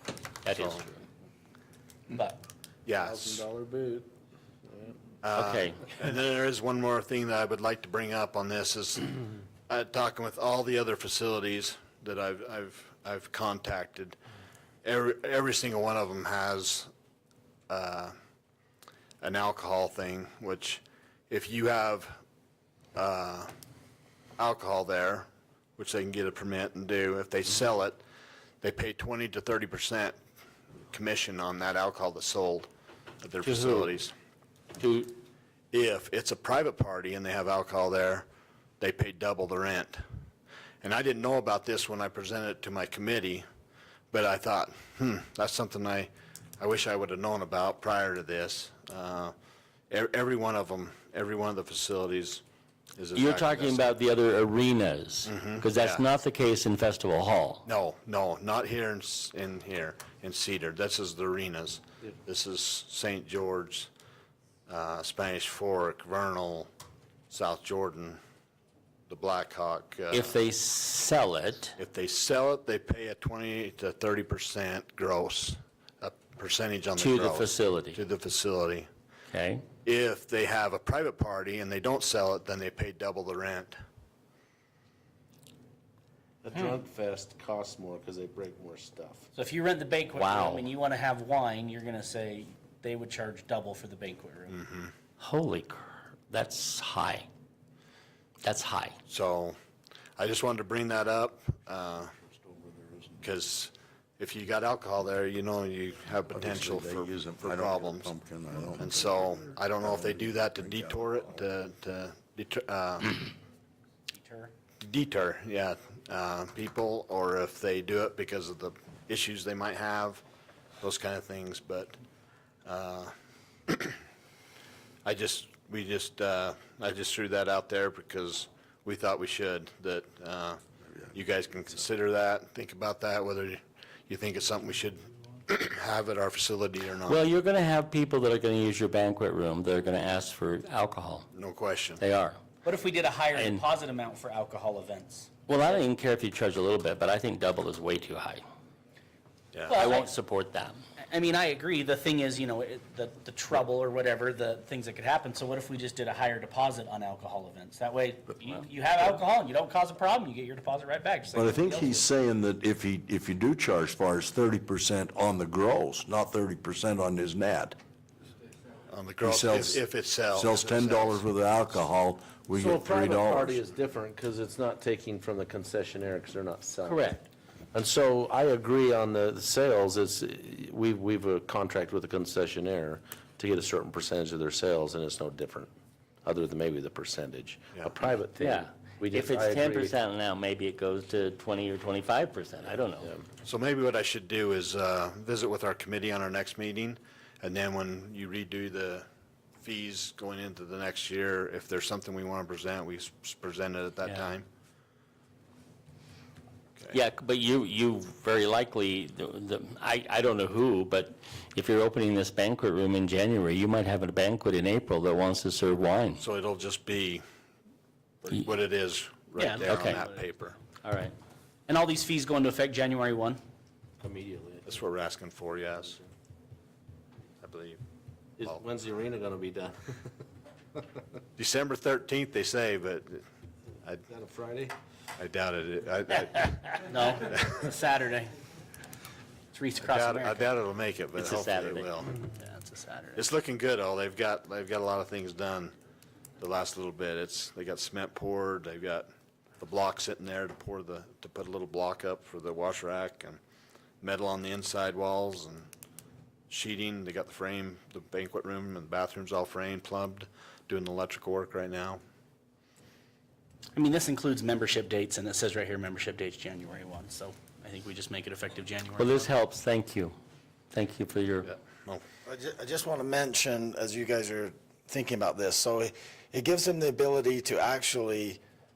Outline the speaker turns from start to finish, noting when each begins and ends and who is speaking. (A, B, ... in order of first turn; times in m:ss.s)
0:00.4-0:01.0 A
0:00.5-0:00.8 B
0:02.1-0:02.4 C
0:02.8-0:03.4 B
0:03.0-0:04.1 D
0:04.6-0:05.0 D
0:05.2-0:09.1 B
0:05.3-0:05.8 A
0:09.7-0:14.2 B
0:14.8-0:16.9 B
0:17.7-0:18.1 B
0:19.2-0:22.2 B
0:22.9-0:23.5 B
0:24.4-0:28.0 B
0:28.6-0:30.2 B
0:30.9-0:32.7 B
0:33.2-0:34.1 B
0:33.6-0:33.8 D
0:34.8-0:35.1 A
0:35.7-0:38.2 B
0:38.8-0:40.0 B
0:40.8-0:43.4 B
0:44.1-0:49.3 B
0:49.9-0:52.4 B
0:53.0-0:53.9 B
0:53.1-0:57.6 A
0:55.2-0:56.0 B
0:57.6-1:03.9 B
1:04.7-1:06.7 B
1:07.3-1:08.2 B
1:09.1-1:10.4 B
1:10.1-1:11.8 A
1:11.8-1:18.9 B
1:17.0-1:18.0 A
1:19.3-1:19.6 A
1:19.8-1:23.8 B
1:26.4-1:29.3 D
1:29.4-1:34.6 C
1:30.1-1:30.7 A
1:34.5-1:34.9 B
1:35.2-1:37.3 A
1:38.4-1:39.0 A
1:39.1-1:39.6 B
1:40.2-1:42.1 B
1:43.2-1:48.2 B
1:46.3-1:51.0 E
1:48.8-1:53.3 B
1:54.1-1:54.5 C
1:54.8-2:00.2 B
2:00.8-2:01.9 B
2:02.6-2:03.1 B
2:03.7-2:04.0 B
2:05.0-2:10.6 B
2:11.1-2:17.2 B
2:17.0-2:21.3 A
2:21.3-2:22.0 B
2:22.0-2:22.4 A
2:22.6-2:25.4 C
2:23.3-2:23.6 A
2:25.5-2:28.4 A
2:29.5-2:29.9 B
2:29.7-2:30.1 C
2:29.7-2:30.8 A
2:31.0-2:42.0 C
2:41.3-2:47.8 E
2:48.9-2:51.2 B
2:49.2-2:53.6 E
2:52.5-3:05.7 D
2:56.8-2:57.2 A
3:06.2-3:09.9 D
3:08.4-3:13.1 A
3:13.4-3:19.0 B
3:19.6-3:24.4 B
3:26.9-3:36.2 A
3:36.2-3:37.2 B
3:38.2-3:40.6 B
3:39.4-3:40.1 C
3:39.7-3:40.0 A
3:40.8-3:41.1 A
3:41.7-3:43.4 C
3:44.0-3:44.8 D
3:44.6-3:46.0 B
3:47.4-3:47.8 B
3:48.4-3:50.1 D
3:51.4-3:53.2 B
3:54.1-3:54.7 D
3:55.2-3:57.6 B
3:56.8-3:58.3 C
3:59.5-4:00.5 C
3:59.8-4:02.2 B
4:01.2-4:01.9 A
4:02.2-4:03.3 C
4:03.2-4:05.7 B
4:06.4-4:09.0 B
4:09.6-4:13.4 B
4:14.0-4:15.7 B
4:16.5-4:22.0 B
4:23.7-4:29.3 C
4:29.0-4:30.1 A
4:30.7-4:31.5 A
4:31.4-4:32.0 B
4:32.2-4:38.4 F